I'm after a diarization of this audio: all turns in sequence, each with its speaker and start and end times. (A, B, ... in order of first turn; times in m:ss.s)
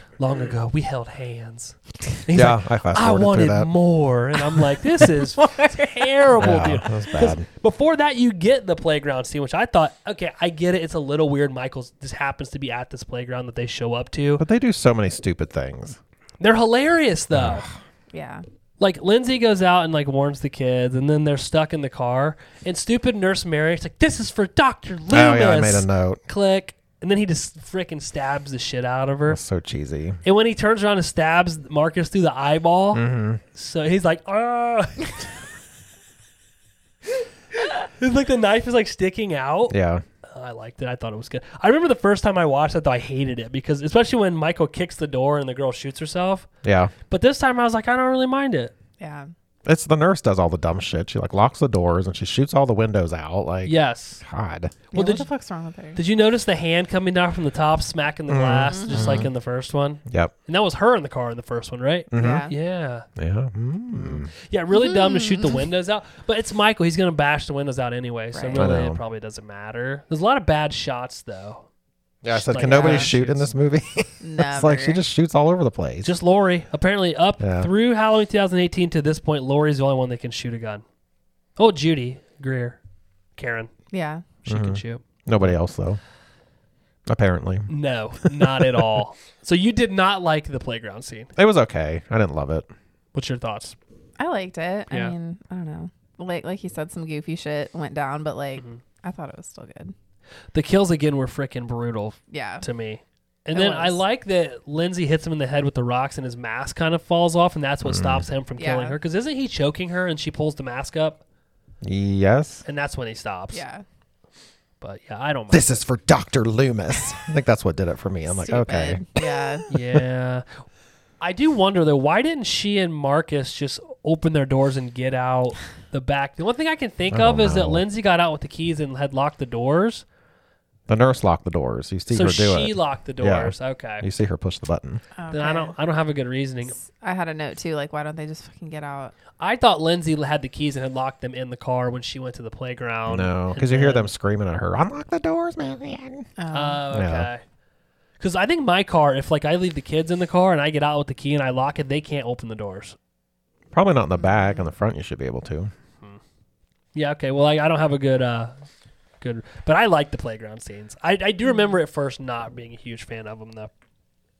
0:00.2-0:14.4 A
0:02.3-0:03.7 B
0:05.4-0:06.1 C
0:06.4-0:07.5 B
0:14.4-0:16.0 B
0:16.4-0:17.6 A
0:17.3-0:17.7 B
0:18.1-0:18.4 C
0:18.8-0:29.4 A
0:25.1-0:26.2 B
0:29.3-0:30.2 B
0:30.2-0:35.1 A
0:32.9-0:33.4 B
0:37.6-0:46.5 A
0:39.7-0:40.0 B
0:46.6-0:46.9 B
0:47.1-0:48.7 A
0:49.0-0:49.3 C
0:49.6-0:54.9 B
0:53.6-0:54.2 A
0:54.9-0:56.0 C
0:54.9-0:55.2 A
0:56.0-1:03.0 A
0:58.3-0:59.3 B
0:58.7-0:59.2 C
1:00.1-1:00.3 B
1:02.1-1:02.4 B
1:02.2-1:02.5 C
1:03.2-1:04.3 B
1:04.3-1:11.7 A
1:04.7-1:05.6 C
1:08.3-1:08.8 C
1:08.5-1:09.0 B
1:12.2-1:16.1 B
1:12.3-1:13.5 A
1:12.6-1:13.1 C
1:14.2-1:15.0 C
1:16.0-1:20.8 A
1:17.4-1:17.7 B
1:21.6-1:22.8 A
1:23.4-1:23.7 A
1:23.9-1:24.2 C
1:24.4-1:25.5 A
1:24.5-1:26.0 B
1:27.0-1:27.7 B
1:27.7-1:31.3 A
1:28.2-1:28.8 B
1:31.4-1:32.7 B
1:33.1-1:33.8 A
1:34.2-1:39.9 C
1:40.5-1:51.2 A
1:42.3-1:42.6 C
1:43.5-1:44.0 C
1:47.8-1:48.3 B
1:48.6-1:49.0 C
1:51.8-1:52.6 B
1:52.6-1:53.6 A
1:53.5-1:53.8 C
1:54.8-1:55.7 A
1:55.5-1:59.2 B
1:58.3-1:59.6 C
1:59.7-2:00.4 A
2:01.2-2:10.0 A
2:07.1-2:07.8 B
2:10.9-2:15.0 B
2:12.1-2:14.0 A
2:15.2-2:15.7 C
2:15.3-2:16.7 A
2:16.7-2:19.1 C
2:19.4-2:24.1 A
2:23.1-2:26.3 B
2:26.4-2:26.8 C
2:26.5-2:27.4 A
2:26.9-2:27.3 B
2:28.2-2:33.0 A
2:33.7-2:35.7 B
2:34.2-2:34.7 C
2:36.9-2:38.5 A
2:39.2-2:43.7 A